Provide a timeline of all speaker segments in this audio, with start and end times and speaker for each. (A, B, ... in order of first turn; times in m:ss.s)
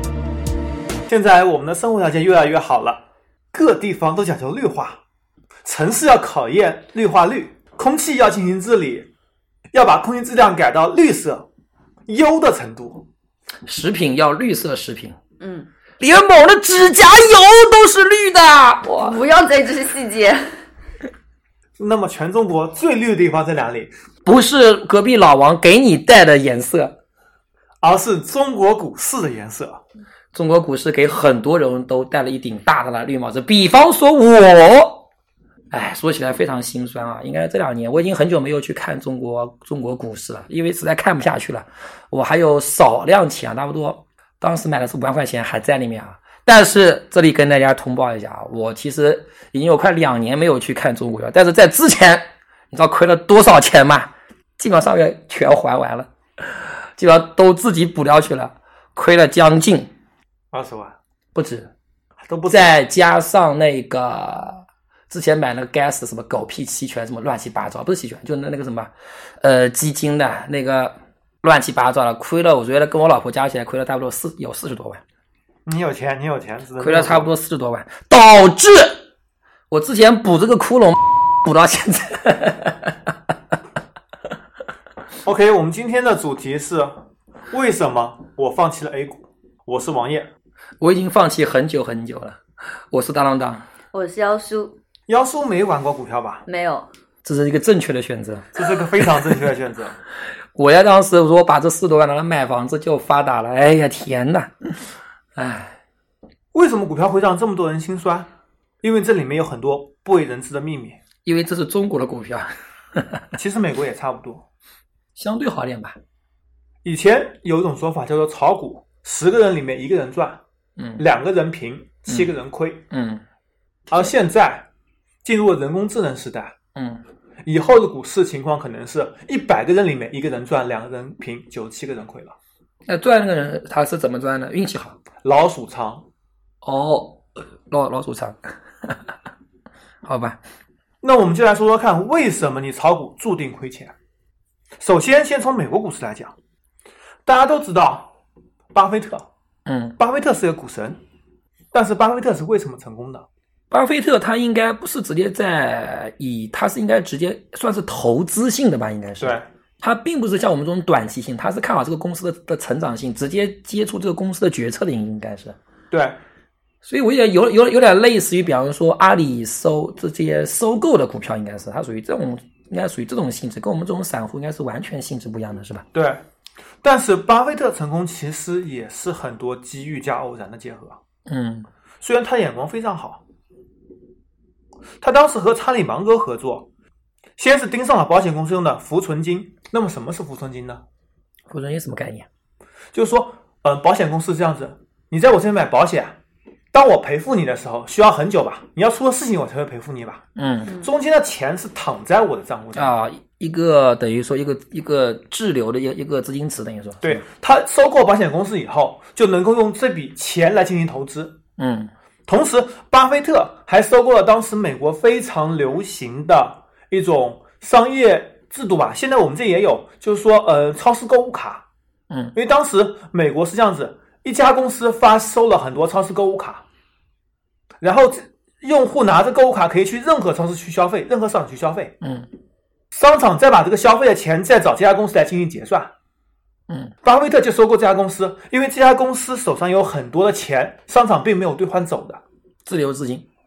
0:01.1-0:05.0 A
0:05.6-0:09.1 A
0:09.7-0:11.5 A
0:12.1-0:13.1 A
0:13.7-0:15.2 B
0:15.4-0:15.7 C
0:16.0-0:19.2 B
0:18.9-0:20.6 C
0:21.8-0:23.9 A
0:24.2-0:27.0 B
0:27.8-0:29.8 A
0:30.3-0:35.1 B
0:35.7-0:59.9 B
1:00.5-1:01.0 A
1:01.4-1:01.7 B
1:02.2-1:02.8 A
1:02.5-1:15.0 B
1:15.7-1:17.3 A
1:16.8-1:19.0 B
1:19.7-1:23.1 B
1:25.2-1:30.3 A
1:30.8-1:32.4 B
1:32.9-1:33.7 B
1:33.9-1:34.8 C
1:35.1-1:36.4 A
1:36.5-1:36.9 C
1:37.2-1:39.1 B
1:38.5-1:40.0 A
1:40.6-1:44.8 B
1:45.4-1:45.8 B
1:46.5-1:48.3 A
1:48.8-1:51.0 A
1:51.2-1:53.2 B
1:53.3-1:54.4 A
1:55.2-1:56.0 B
1:56.8-2:00.4 A
2:00.8-2:01.0 B
2:01.0-2:02.8 A
2:02.9-2:03.2 B
2:03.9-2:04.7 A
2:05.2-2:06.6 A
2:06.8-2:07.0 B
2:07.4-2:12.4 A
2:12.9-2:15.0 B
2:15.2-2:16.1 A
2:16.6-2:19.0 B
2:20.0-2:20.4 B
2:21.0-2:23.9 A
2:24.8-2:26.3 A
2:27.3-2:28.1 A
2:28.7-2:29.3 A
2:29.7-2:30.0 B
2:30.0-2:31.0 A
2:31.7-2:33.3 A
2:33.7-2:45.6 B
2:39.2-2:39.5 A
2:45.9-2:46.2 A
2:46.8-2:55.9 B
2:55.9-2:56.2 A
2:56.8-3:01.0 A
3:01.3-3:01.7 B
3:02.0-3:03.2 A
3:05.0-3:06.7 A
3:07.4-3:10.8 A
3:11.5-3:12.3 B
3:12.9-3:16.2 A
3:16.7-3:20.2 A
3:20.4-3:20.8 B
3:20.8-3:23.0 A
3:22.8-3:27.2 B
3:27.0-3:31.4 A
3:31.6-3:31.9 B
3:32.3-3:41.6 A
3:42.1-3:42.4 B
3:42.4-3:46.6 A
3:47.8-3:52.0 A
3:52.0-3:52.3 B
3:52.9-3:55.9 A
3:57.0-4:02.2 A
4:02.7-4:03.2 B